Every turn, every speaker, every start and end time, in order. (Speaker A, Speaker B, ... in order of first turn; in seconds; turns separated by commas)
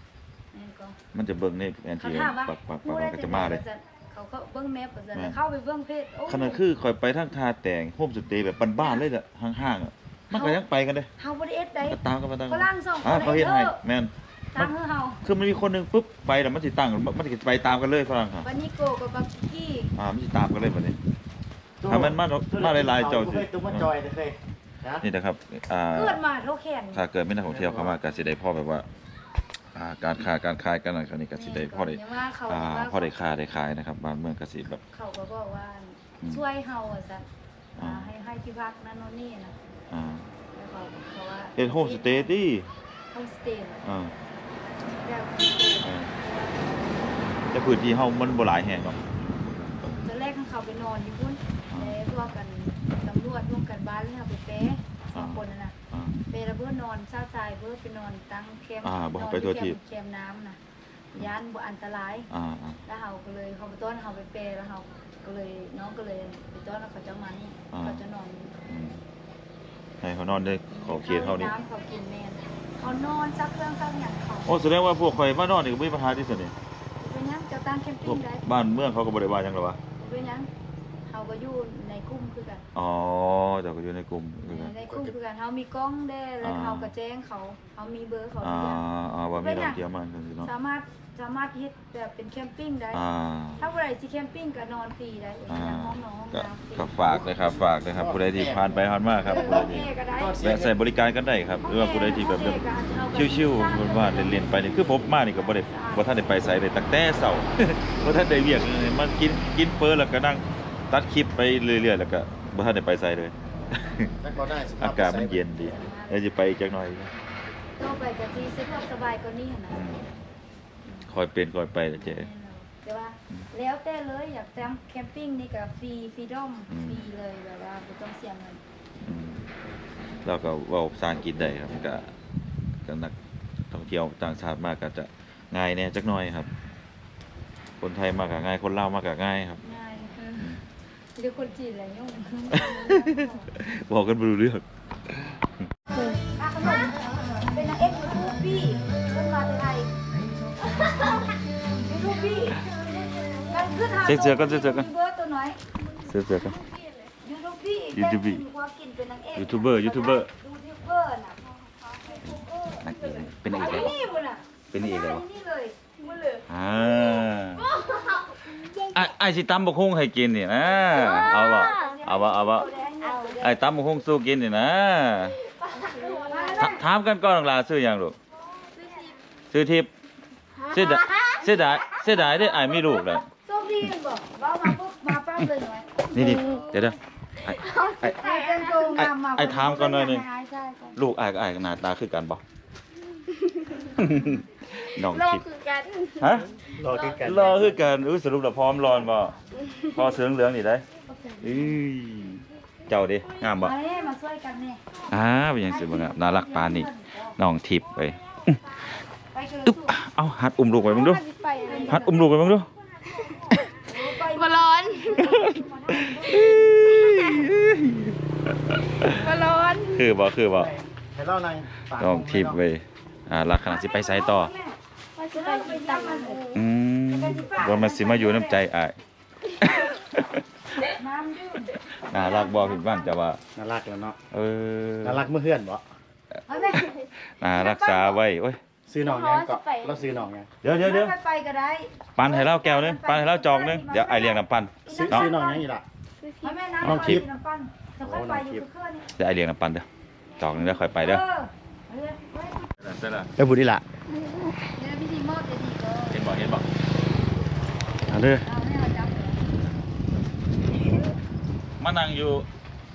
Speaker A: 0.5-0.9, Speaker B: 1.1-3.6, Speaker A: 2.0-6.6, Speaker B: 6.3-11.1, Speaker A: 10.3-10.6, Speaker A: 11.2-12.0, Speaker B: 11.8-14.7, Speaker A: 12.5-13.8, Speaker A: 14.5-15.2, Speaker B: 15.2-18.5, Speaker A: 18.4-19.9, Speaker B: 19.9-21.0, Speaker C: 21.8-25.0, Speaker B: 21.9-23.9, Speaker B: 25.0-26.2, Speaker A: 25.9-27.1, Speaker B: 26.9-28.9, Speaker C: 27.5-27.9, Speaker B: 29.7-34.8, Speaker A: 31.3-33.1, Speaker A: 34.9-37.2, Speaker A: 37.8-39.5, Speaker B: 37.8-38.1, Speaker B: 39.9-40.3, Speaker A: 40.5-42.3, Speaker B: 41.6-42.7, Speaker A: 43.1-43.8, Speaker B: 43.8-44.1, Speaker A: 44.9-47.0, Speaker B: 45.8-46.1, Speaker B: 47.5-49.0, Speaker A: 50.0-55.7, Speaker B: 55.1-56.1, Speaker A: 56.3-60.6, Speaker B: 58.8-59.8, Speaker A: 61.1-62.3, Speaker B: 62.3-62.8, Speaker A: 62.9-68.5, Speaker B: 67.7-68.0, Speaker B: 68.7-69.0, Speaker B: 70.0-71.5, Speaker A: 70.7-74.5, Speaker B: 74.4-76.5, Speaker A: 77.0-78.4, Speaker B: 78.0-79.8, Speaker A: 80.0-80.5, Speaker A: 81.1-82.6, Speaker B: 82.7-84.7, Speaker A: 84.5-88.8, Speaker B: 86.4-86.9, Speaker B: 88.4-90.5, Speaker A: 89.3-89.8, Speaker A: 90.4-93.0, Speaker B: 92.9-93.6, Speaker A: 93.6-96.9, Speaker B: 95.5-114.1, Speaker C: 97.0-100.7, Speaker A: 99.2-100.4, Speaker A: 101.6-106.3, Speaker C: 114.2-115.5, Speaker B: 114.8-117.1, Speaker A: 115.5-116.2, Speaker A: 117.8-119.8, Speaker B: 119.7-120.0, Speaker B: 121.1-122.3, Speaker A: 122.0-128.6, Speaker B: 126.7-127.0, Speaker B: 129.0-129.4, Speaker B: 130.2-132.1, Speaker B: 132.8-133.1, Speaker B: 133.7-136.5, Speaker B: 137.8-139.6, Speaker A: 139.6-140.4, Speaker B: 140.4-140.6, Speaker A: 141.2-143.5, Speaker B: 142.5-144.6, Speaker A: 145.9-149.9, Speaker A: 150.6-152.7, Speaker A: 153.4-155.6, Speaker B: 154.0-154.9, Speaker B: 156.0-156.6, Speaker A: 157.2-161.4, Speaker B: 157.9-158.4, Speaker B: 159.3-160.3, Speaker A: 162.2-162.7, Speaker B: 162.2-164.0, Speaker A: 163.5-166.4, Speaker B: 164.7-165.2, Speaker B: 166.5-167.7, Speaker D: 167.7-169.0, Speaker B: 168.9-172.7, Speaker A: 170.7-173.5, Speaker D: 171.0-171.9, Speaker B: 173.4-175.4, Speaker D: 175.5-176.7, Speaker A: 175.9-176.7, Speaker B: 176.6-178.2, Speaker D: 178.8-179.1, Speaker B: 179.5-179.9, Speaker D: 180.6-181.4, Speaker B: 180.7-183.3, Speaker A: 183.4-186.9, Speaker B: 186.1-188.2, Speaker D: 187.5-189.0, Speaker A: 188.0-191.0, Speaker B: 189.0-190.2, Speaker B: 190.9-192.4, Speaker D: 193.3-193.9, Speaker B: 193.9-195.4, Speaker D: 194.7-196.3, Speaker B: 196.2-196.5, Speaker C: 196.7-197.7, Speaker D: 196.8-197.7, Speaker B: 197.2-200.8, Speaker A: 201.1-201.5, Speaker B: 201.4-203.8, Speaker A: 203.5-204.8, Speaker B: 205.1-208.5, Speaker A: 205.7-207.3, Speaker A: 209.3-210.0, Speaker B: 209.7-211.2, Speaker D: 210.8-212.0, Speaker A: 211.6-212.4, Speaker B: 211.9-212.7, Speaker D: 213.1-215.6, Speaker A: 213.8-216.7, Speaker B: 215.9-219.3, Speaker D: 216.4-217.5, Speaker D: 219.0-220.0, Speaker B: 219.9-220.7, Speaker C: 220.5-222.6, Speaker B: 222.0-224.5, Speaker A: 223.6-224.7, Speaker D: 225.2-226.6, Speaker A: 225.3-226.5, Speaker B: 226.5-229.0, Speaker A: 227.1-228.6, Speaker B: 229.6-230.4, Speaker A: 230.8-233.1, Speaker B: 232.0-233.4, Speaker C: 233.6-234.2, Speaker B: 234.3-235.2, Speaker C: 235.0-235.8, Speaker A: 236.5-236.9, Speaker B: 237.4-238.6, Speaker A: 237.4-238.2, Speaker C: 238.9-240.5, Speaker D: 239.0-240.1, Speaker B: 240.6-241.1, Speaker A: 240.6-245.6, Speaker B: 242.2-245.3, Speaker C: 244.9-245.8, Speaker D: 246.2-246.7, Speaker A: 246.4-249.1, Speaker C: 246.8-247.2, Speaker B: 246.8-247.2, Speaker C: 248.0-248.6, Speaker B: 249.2-249.8, Speaker B: 250.4-251.2, Speaker A: 250.5-252.7, Speaker B: 252.8-253.3, Speaker C: 253.4-253.8, Speaker A: 254.6-256.2, Speaker B: 256.1-256.6, Speaker C: 258.1-258.4, Speaker A: 258.4-259.4, Speaker B: 261.8-262.4